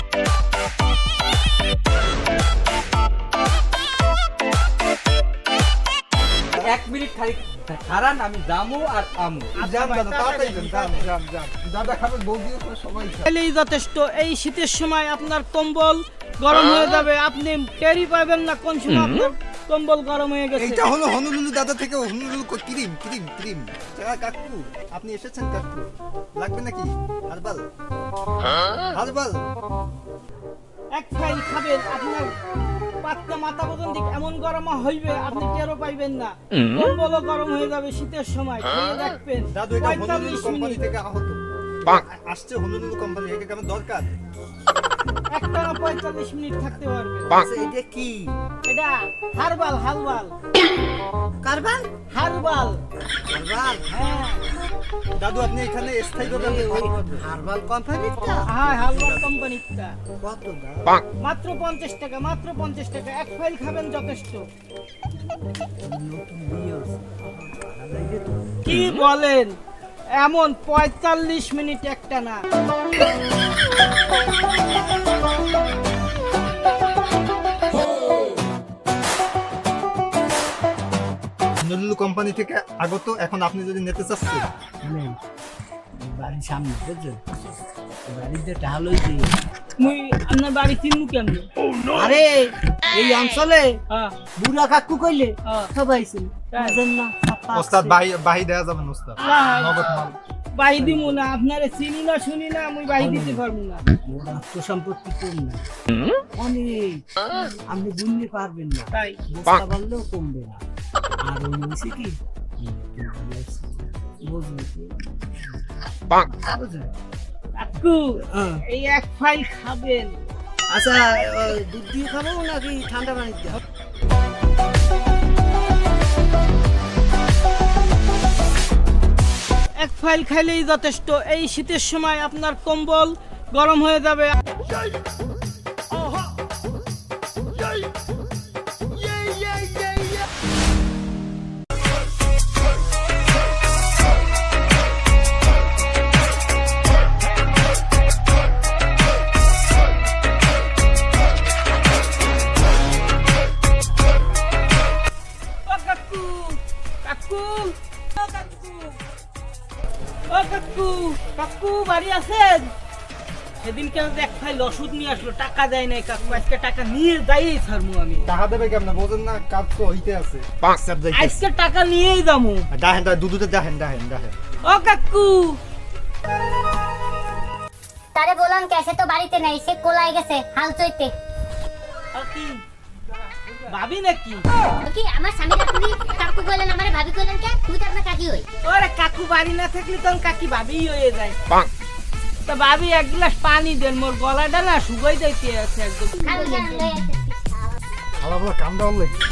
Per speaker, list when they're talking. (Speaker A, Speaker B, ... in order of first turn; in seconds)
Speaker A: 6.6-9.5
Speaker B: 9.6-11.0, 13.3-20.8, 30.9-32.3, 33.0-40.8, 45.3-47.4, 48.7-50.3, 52.1-52.8, 53.9-54.4, 58.5-59.9, 61.2-64.5, 68.7-69.6, 70.2-72.4, 89.8-91.5, 93.9-94.2, 96.5-96.8, 99.2-99.8, 100.6-103.8, 108.9-109.2, 117.6-118.1, 118.7-120.2, 129.8-134.4, 155.7-159.0, 160.3-162.7, 163.6-168.2, 171.1-172.7, 174.7-175.6, 182.2-182.6, 183.7-184.4, 188.7-191.4, 192.5-196.7
Speaker C: 9.6-13.3, 20.6-27.7, 28.9-29.4, 39.5-44.1, 55.2-57.2, 81.6-84.5, 97.5-100.2, 168.3-171.4, 172.7-174.4, 198.2-199.2
Speaker D: 47.4-48.3, 51.4-51.9, 53.3-53.8, 56.2-59.1, 60.2-61.0, 65.8-68.5, 84.8-85.2, 86.1-87.2, 88.1-89.3, 91.9-93.8, 94.4-98.0, 100.8-101.2, 103.0-103.4, 104.1-105.6, 106.4-107.0, 107.7-110.6, 111.3-113.7, 114.3-114.9, 116.4-116.9, 120.7-123.6
Speaker E: 178.2-181.1, 184.8-188.4, 196.2-197.7